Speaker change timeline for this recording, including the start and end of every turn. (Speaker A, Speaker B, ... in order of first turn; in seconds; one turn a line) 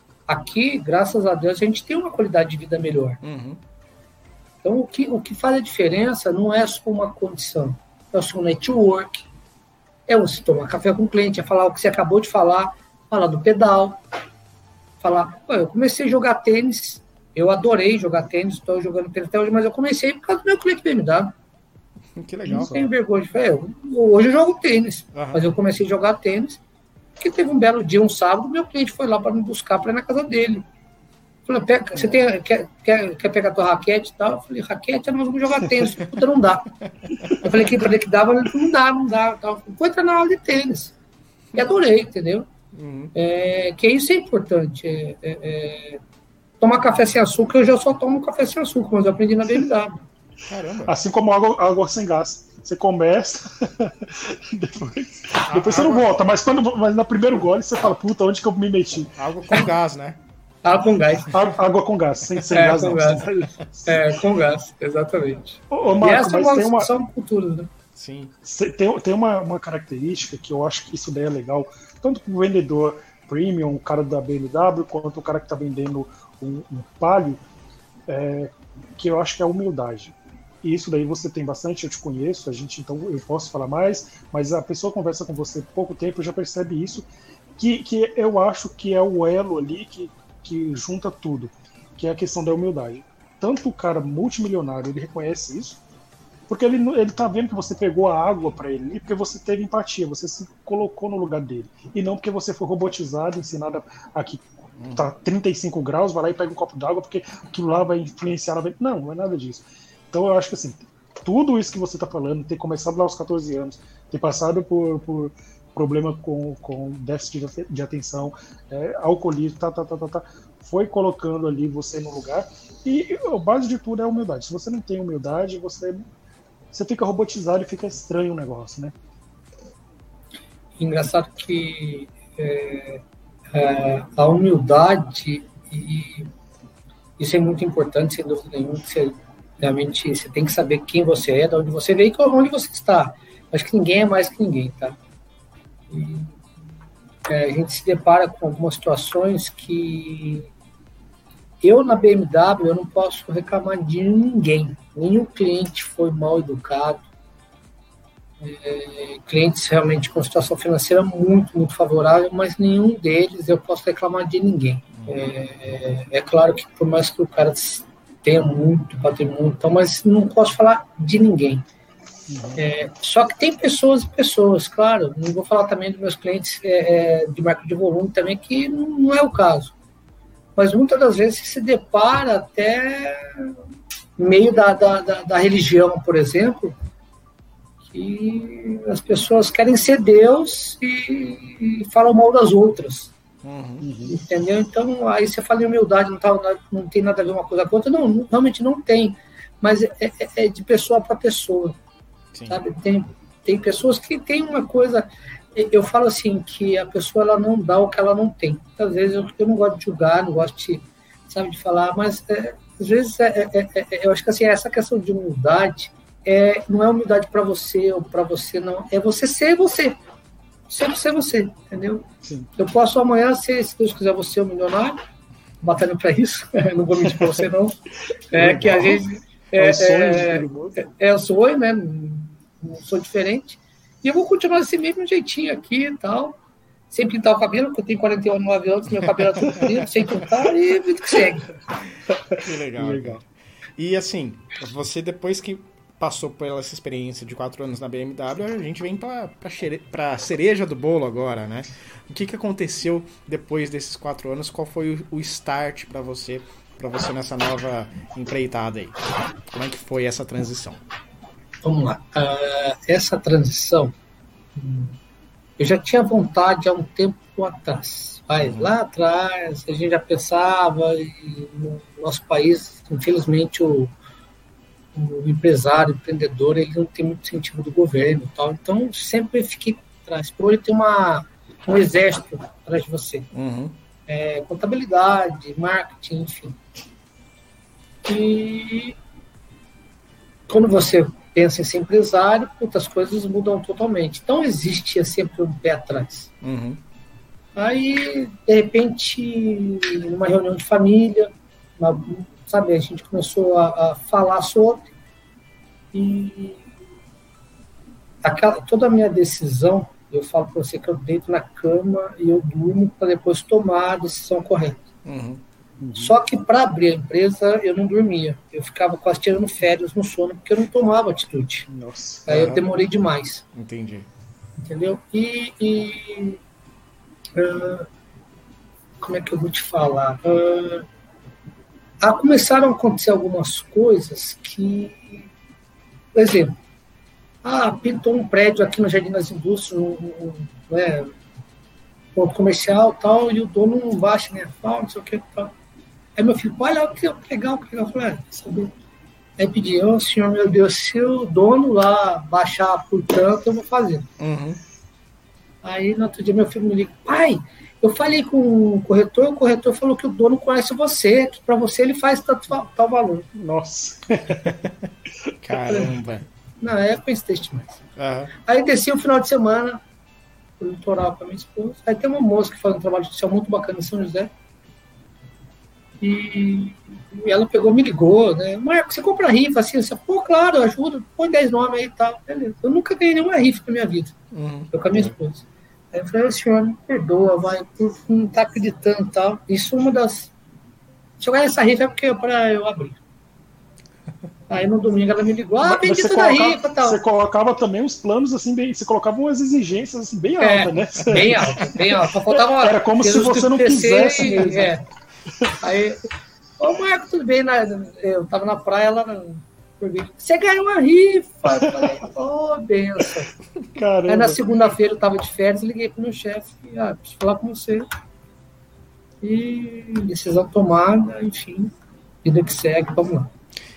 Speaker A: 0.3-3.2
Speaker B: 3.2-3.6
Speaker A: 4.6-9.2
Speaker A: 10.1-14.0
Speaker A: 15.0-21.3
Speaker B: 22.1-22.9
Speaker A: 22.4-26.6
Speaker B: 25.1-25.6
Speaker A: 27.2-30.6
Speaker A: 31.5-36.7
Speaker B: 37.0-37.4
Speaker A: 37.4-40.9
Speaker A: 41.5-42.5
Speaker B: 42.7-43.1
Speaker A: 43.1-46.0
Speaker A: 46.6-49.9
Speaker B: 50.5-51.0
Speaker C: 50.9-59.6
Speaker B: 55.4-56.1
Speaker B: 59.1-60.2
Speaker A: 60.6-61.5
Speaker C: 61.3-64.0
Speaker A: 62.5-63.3
Speaker A: 63.9-67.7
Speaker C: 65.7-66.9
Speaker B: 68.0-68.3
Speaker C: 68.4-77.4
Speaker C: 78.1-95.8
Speaker C: 96.5-104.4
Speaker C: 104.9-126.0
Speaker C: 126.7-128.9
Speaker A: 130.8-136.3
Speaker A: 137.2-145.0
Speaker A: 145.9-146.3
Speaker A: 147.3-150.5
Speaker A: 151.6-157.0
Speaker A: 158.4-171.6
Speaker C: 172.3-172.6
Speaker A: 172.6-179.7
Speaker A: 180.6-183.5
Speaker A: 184.2-186.8
Speaker A: 187.9-193.1
Speaker B: 193.4-193.9
Speaker C: 193.8-194.2
Speaker A: 194.1-201.8
Speaker B: 202.3-202.6
Speaker A: 202.5-219.9
Speaker A: 220.7-225.0
Speaker C: 222.2-222.5
Speaker A: 225.6-227.7
Speaker A: 228.3-236.4
Speaker C: 228.3-230.8
Speaker A: 236.9-241.5
Speaker C: 242.1-243.2
Speaker B: 242.4-243.2
Speaker B: 243.8-260.8
Speaker A: 261.6-263.9
Speaker A: 264.6-265.0
Speaker A: 265.6-273.9
Speaker B: 268.4-268.7
Speaker A: 274.9-283.3
Speaker B: 283.3-283.7
Speaker A: 284.1-286.6
Speaker A: 288.1-289.0
Speaker A: 290.5-296.3
Speaker B: 296.4-296.8
Speaker A: 297.6-304.9
Speaker A: 305.9-306.6
Speaker A: 308.2-314.8
Speaker B: 315.0-315.4
Speaker C: 315.8-316.2
Speaker A: 316.0-321.7
Speaker C: 321.7-322.3
Speaker A: 322.3-323.4
Speaker B: 322.3-322.6
Speaker B: 323.5-324.1
Speaker A: 324.6-326.4
Speaker A: 327.4-327.9
Speaker A: 329.0-330.9
Speaker A: 332.0-335.3
Speaker A: 336.1-336.5
Speaker A: 337.4-341.1
Speaker A: 342.1-345.5
Speaker A: 346.1-348.7
Speaker A: 349.4-354.1
Speaker B: 354.2-354.6
Speaker A: 355.6-363.3
Speaker C: 363.3-364.6
Speaker B: 364.4-364.7
Speaker B: 365.4-366.3
Speaker A: 366.6-367.8
Speaker B: 368.0-368.3
Speaker A: 368.4-369.8
Speaker A: 370.6-374.3
Speaker A: 376.0-384.1
Speaker B: 384.3-385.1
Speaker A: 384.7-390.3
Speaker A: 391.2-393.0
Speaker A: 394.5-397.0
Speaker C: 395.6-404.8
Speaker A: 400.4-404.8
Speaker A: 405.6-406.0
Speaker A: 406.6-413.3
Speaker C: 411.5-411.9
Speaker C: 413.7-414.4
Speaker A: 414.1-417.9
Speaker A: 419.2-421.7
Speaker A: 422.2-423.3